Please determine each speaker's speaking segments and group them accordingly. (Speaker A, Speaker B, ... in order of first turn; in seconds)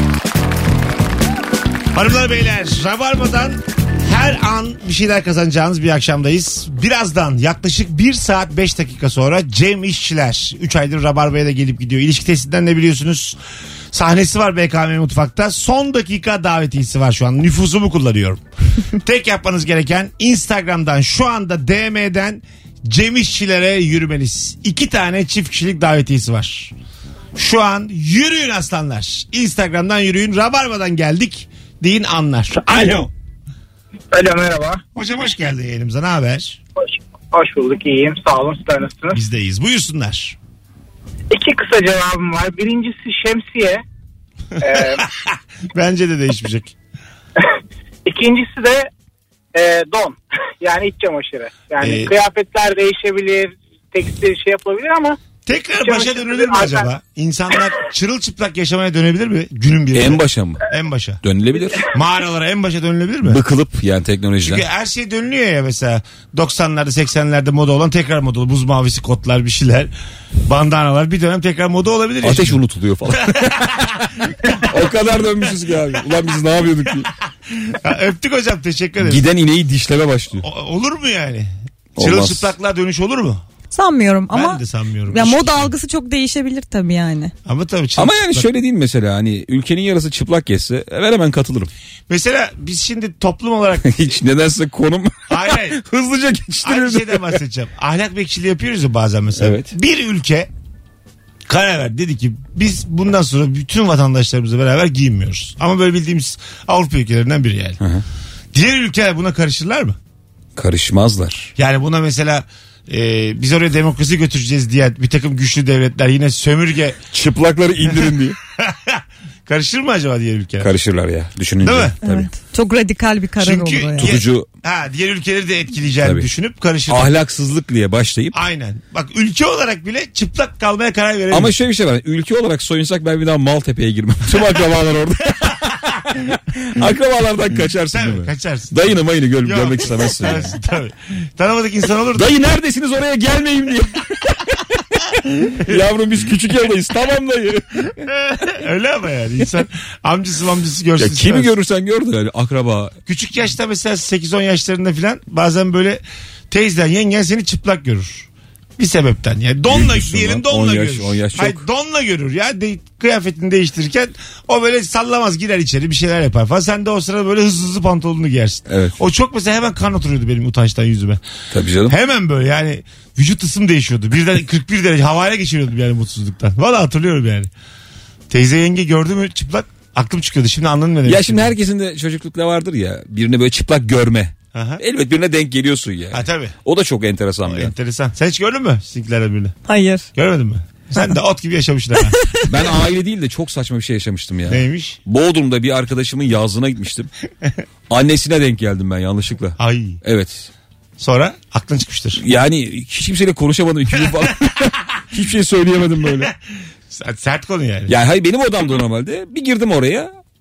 Speaker A: 1.9-13.4, 13.9-18.4, 18.9-26.7, 27.4-33.1, 35.0-36.6, 39.1-40.4, 44.6-46.7, 51.8-52.1, 55.5-61.2, 61.9-63.4, 64.4-69.9, 70.5-72.6, 73.1-74.6, 77.6-79.3, 80.4-83.4, 84.3-85.7, 87.5-88.5, 92.1-93.9, 95.3-95.8, 96.6-100.5, 101.5-107.8, 108.5-110.0, 111.6-117.0, 117.8-120.7, 121.6-122.0, 123.4-127.1, 128.3-131.6, 137.9-142.3, 148.0-151.5, 153.1-171.2, 171.9-177.5, 178.3-181.5, 184.5-184.8, 186.1-186.5, 187.5-189.6, 190.2-192.2, 194.5-195.0, 199.6-200.0, 201.0-202.2, 206.9-207.9
Speaker B: 34.1-34.8, 37.3-39.2, 41.3-43.8, 44.6-45.0, 48.1-48.9, 49.5-55.2, 55.8-56.9
Speaker C: 59.9-60.7, 61.2-61.9, 63.3-64.7, 72.2-73.9, 74.5-77.1, 79.0-80.5, 82.0-82.5, 88.0-91.7, 93.8-97.4, 99.4-99.7, 110.6-111.5, 117.1-118.4, 120.6-122.3, 124.0-124.5, 126.9-128.4, 131.3-140.6, 142.2-147.9, 151.0-152.9, 159.7-161.6, 168.7-169.0, 171.5-171.9, 181.1-187.7, 192.5-197.1, 197.9-200.5, 202.2-206.3, 207.9-210.1
Speaker D: 83.7-87.3, 122.0-124.1, 189.7-190.1, 192.1-192.4